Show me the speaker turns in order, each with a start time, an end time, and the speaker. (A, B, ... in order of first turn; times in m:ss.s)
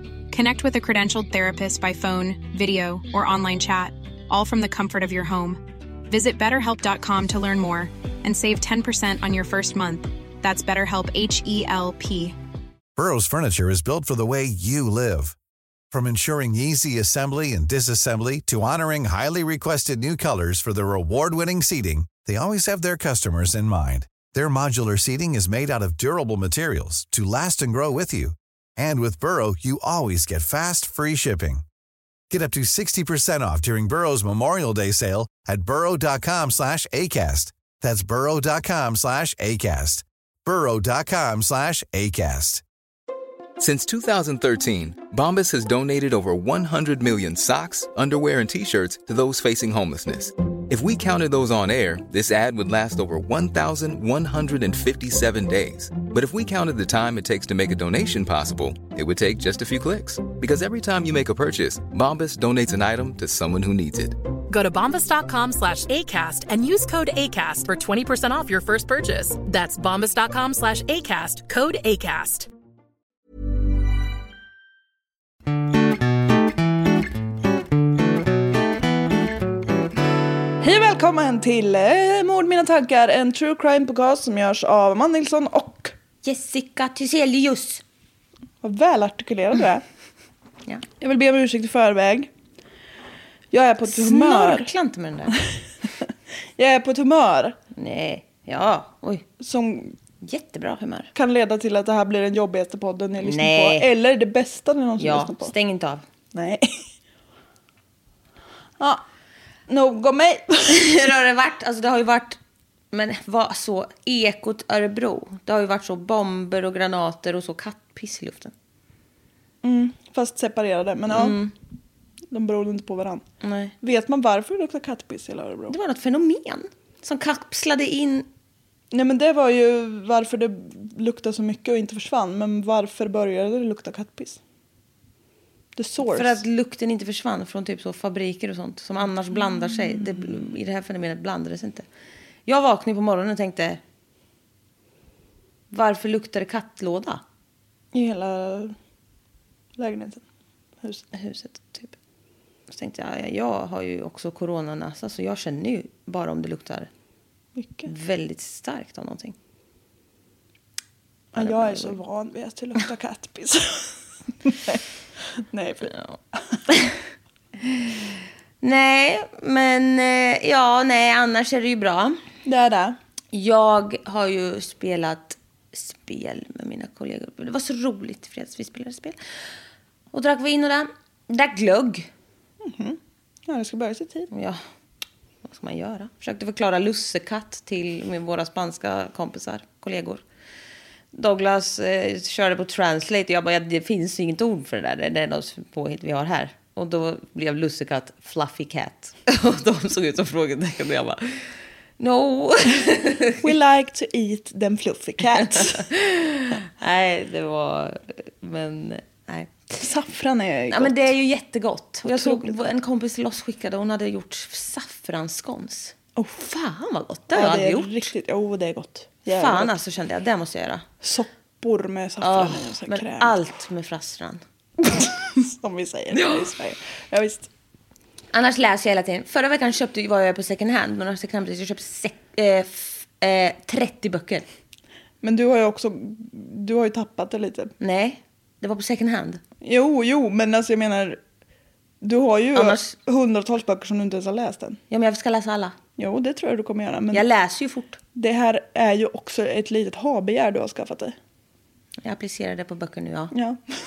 0:00.3-0:12.4 A
0:13.0-0:15.4 B
0:15.9-0:31.6 B
0:32.3-0:42.6 B
0:43.6-1:04.2 C
1:04.5-1:12.5 D
1:20.6-1:25.9 E
1:26.2-1:27.8 F
1:28.6-1:29.8 E
1:31.0-1:32.3 E
1:33.5-1:34.7 E
1:33.9-1:35.4 F
1:36.6-1:37.6 E
1:37.7-1:39.2 F
1:39.4-1:40.0 E
1:40.2-1:41.1 F
1:41.2-1:45.5 E
1:43.2-1:43.9 F
1:45.0-1:46.0 F
1:46.3-1:46.8 E
1:49.7-1:50.8 E
1:50.7-1:52.4 F
1:52.9-1:58.5 F
1:59.6-2:01.4 E
2:01.1-2:01.5 F
2:02.3-2:03.2 E
2:03.4-2:03.7 F
2:03.8-2:05.7 E
2:05.7-2:08.3 F
2:08.9-2:14.4 E
2:15.8-2:16.4 E
2:16.0-2:21.9 F
2:19.7-2:20.1 E
2:22.5-2:23.8 F
2:25.7-2:27.2 F
2:27.9-2:28.8 E
2:29.8-2:30.2 E
2:31.1-2:32.0 F
2:32.7-2:36.9 F
2:37.6-2:37.9 E
2:37.9-2:39.4 F
2:41.3-2:44.0 E
2:41.4-2:42.0 F
2:44.5-2:44.8 E
2:45.4-2:45.9 E
2:47.6-2:48.0 F
2:48.6-2:52.2 F
2:52.4-2:53.0 E
2:53.3-2:59.2 F
3:00.1-3:02.1 F
3:02.6-3:04.3 E
3:04.3-3:04.6 F
3:05.4-3:10.2 F
3:11.1-3:23.4 F
3:23.4-3:25.9 E
3:25.4-3:29.5 F
3:29.8-3:31.1 E
3:30.7-3:38.1 F
3:32.0-3:32.7 E
3:37.3-3:39.8 E
3:39.3-3:40.8 F
3:41.0-3:43.4 E
3:42.2-3:44.4 F
3:44.9-3:47.5 E
3:46.1-3:46.5 F
3:48.3-3:54.5 F
3:55.2-3:57.7 E
3:57.8-3:59.4 F
3:59.6-4:01.2 E
4:02.0-4:04.8 E
4:02.6-4:02.9 F
4:04.9-4:05.8 F
4:06.0-4:07.2 E
4:07.1-4:08.0 F
4:08.2-4:11.2 E
4:12.0-4:13.3 F
4:13.3-4:13.6 E